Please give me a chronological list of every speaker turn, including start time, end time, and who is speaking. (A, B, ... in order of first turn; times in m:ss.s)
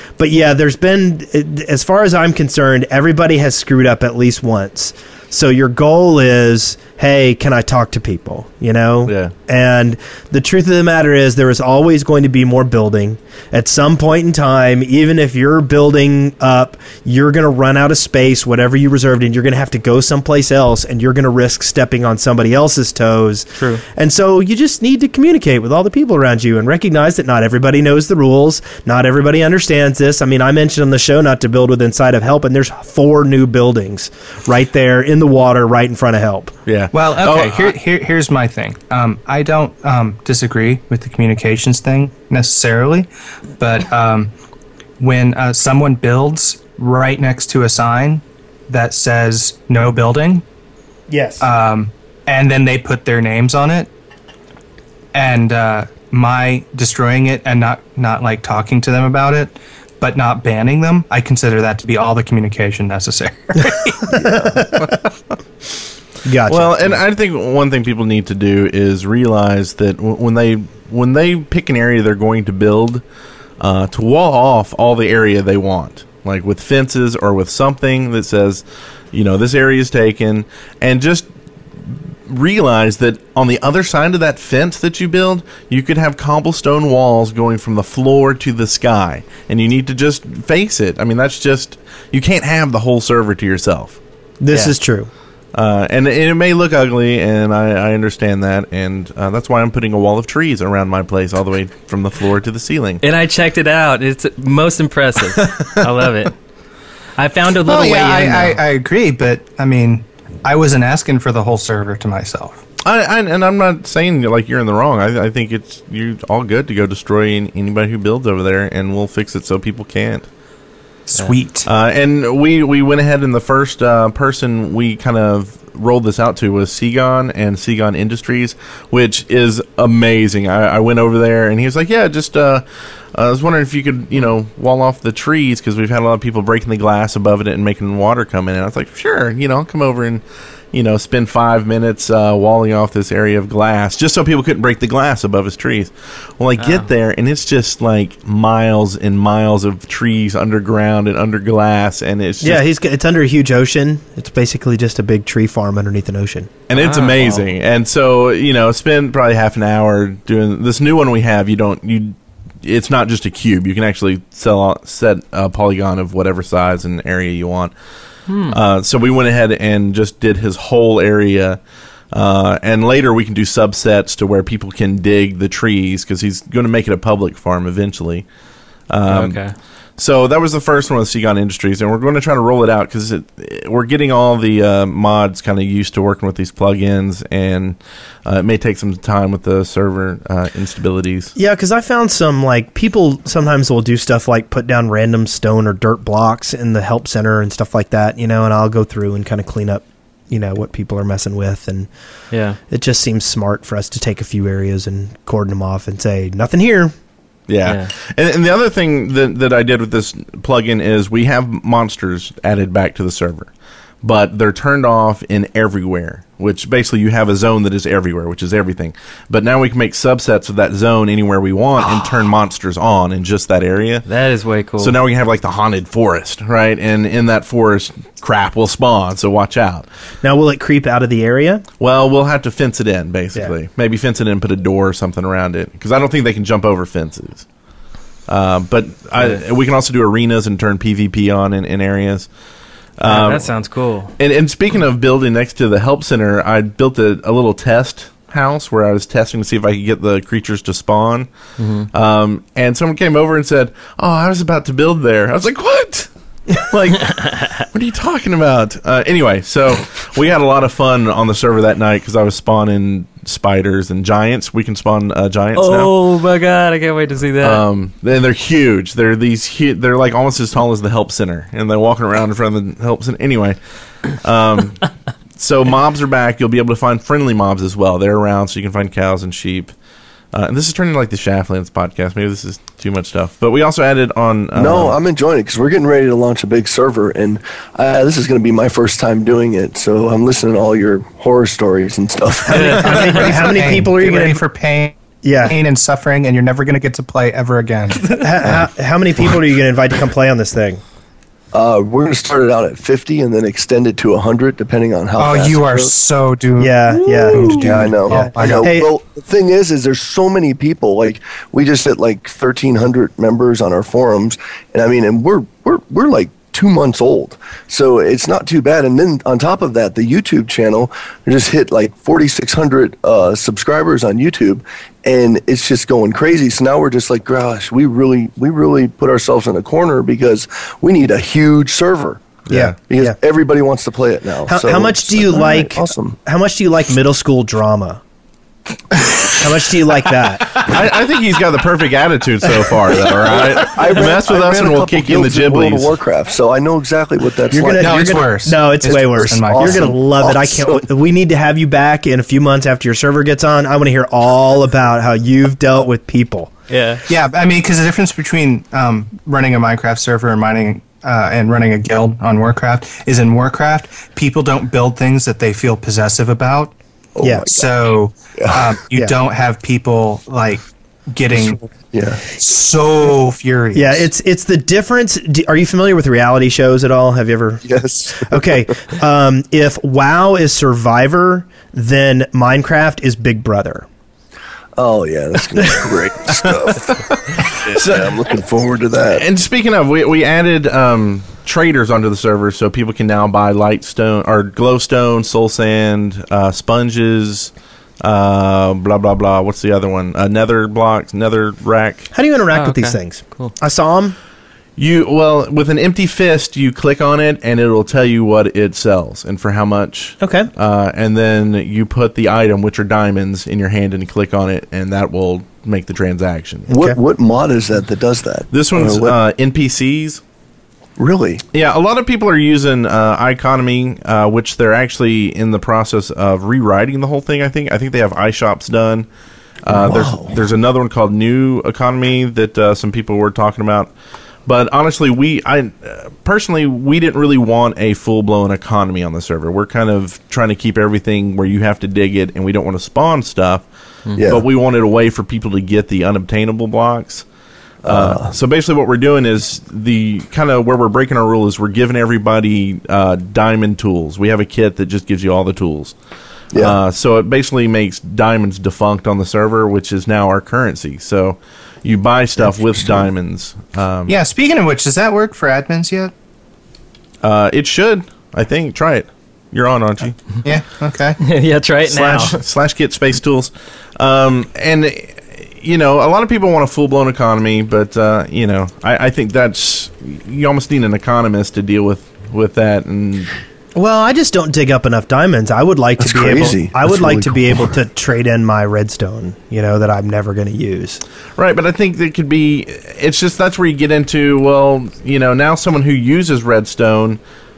0:00.2-0:36.5 A
0:09.0-0:09.3 B
0:23.5-0:23.8 C
0:36.6-0:37.7 B
0:36.9-0:43.1 D
0:43.6-0:44.3 D
0:45.0-0:50.4 D
0:51.1-0:51.4 A
0:51.4-0:53.9 D
0:55.1-1:04.1 D
1:04.1-1:04.9 A
1:06.2-1:06.9 A
1:06.5-1:13.0 B
1:13.6-1:21.3 B
1:22.3-1:34.0 B
1:34.4-1:35.1 A
1:35.5-1:43.0 B
1:43.0-1:46.3 C
1:47.2-1:48.6 C
1:47.6-1:52.6 D
1:52.8-2:00.3 B
2:01.1-2:01.7 D
2:01.6-2:12.6 B
2:13.1-2:32.6 B
2:26.6-2:26.9 C
2:32.4-2:36.5 A
2:36.7-2:47.7 B
2:36.7-2:37.4 C
2:48.3-2:48.6 C
2:48.5-2:51.6 B
2:52.1-2:58.2 B
2:58.9-2:59.4 B
2:59.1-2:59.5 C
3:00.0-3:11.3 B
3:11.4-3:21.9 A
3:22.3-3:22.6 C
3:22.7-3:26.9 A
3:27.5-3:33.5 B
3:27.6-3:27.9 C
3:34.0-3:44.0 B
3:44.0-3:44.9 C
3:44.8-3:49.8 B
3:50.2-3:51.6 A
3:51.8-3:57.4 B
3:58.3-4:02.3 B
4:03.0-4:03.5 B
4:03.0-4:04.1 C
4:04.2-4:11.3 B
4:11.6-4:11.9 C
4:11.9-4:25.9 B
4:25.5-4:27.6 C
4:27.4-4:33.6 B
4:34.1-4:39.7 B
4:40.3-4:45.0 B
4:44.5-4:53.2 E
4:52.5-4:54.4 A
4:52.5-4:53.2 C
4:52.7-4:58.2 D
4:55.2-4:55.6 A
4:58.1-5:00.8 A
5:01.5-5:06.0 E
5:05.2-5:08.7 D
5:06.6-5:08.9 A
5:07.3-5:36.1 E
5:32.5-5:32.7 B
5:32.5-5:33.2 A
5:34.4-5:38.0 A
5:39.3-5:40.6 A
5:40.6-5:45.9 B
5:43.3-5:48.3 E
5:47.5-5:56.5 A
5:47.7-5:49.9 D
5:48.8-5:50.8 E
5:56.7-5:57.0 C
5:57.1-6:06.7 D
6:07.2-6:08.7 E
6:07.2-6:07.5 A
6:07.5-6:11.6 D
6:11.3-6:12.2 E
6:12.3-6:14.1 D
6:13.7-6:23.8 A
6:17.6-6:18.6 E
6:24.8-6:29.2 E
6:27.1-6:28.1 B
6:29.1-6:42.1 B
6:42.1-6:44.2 A
6:42.5-6:43.5 C
6:44.8-6:56.7 B
6:50.2-6:50.5 A
6:56.7-6:57.0 A
6:56.7-6:59.1 E
6:58.5-7:00.2 B
7:01.0-7:01.4 E
7:01.5-7:09.0 B
7:09.6-7:13.9 B
7:09.7-7:10.4 E
7:14.4-7:23.6 B
7:24.2-7:24.4 E
7:24.2-7:27.2 B
7:27.8-7:28.3 E
7:27.8-7:35.9 B
7:36.6-7:44.1 B
7:42.4-7:43.1 E
7:44.1-7:46.1 D
7:47.2-7:50.2 B
7:50.4-7:51.2 D
7:51.2-7:52.4 C
7:51.9-7:52.3 D
7:52.1-8:03.3 B
8:03.7-8:11.0 A
8:06.0-8:07.7 E
8:11.4-8:17.2 B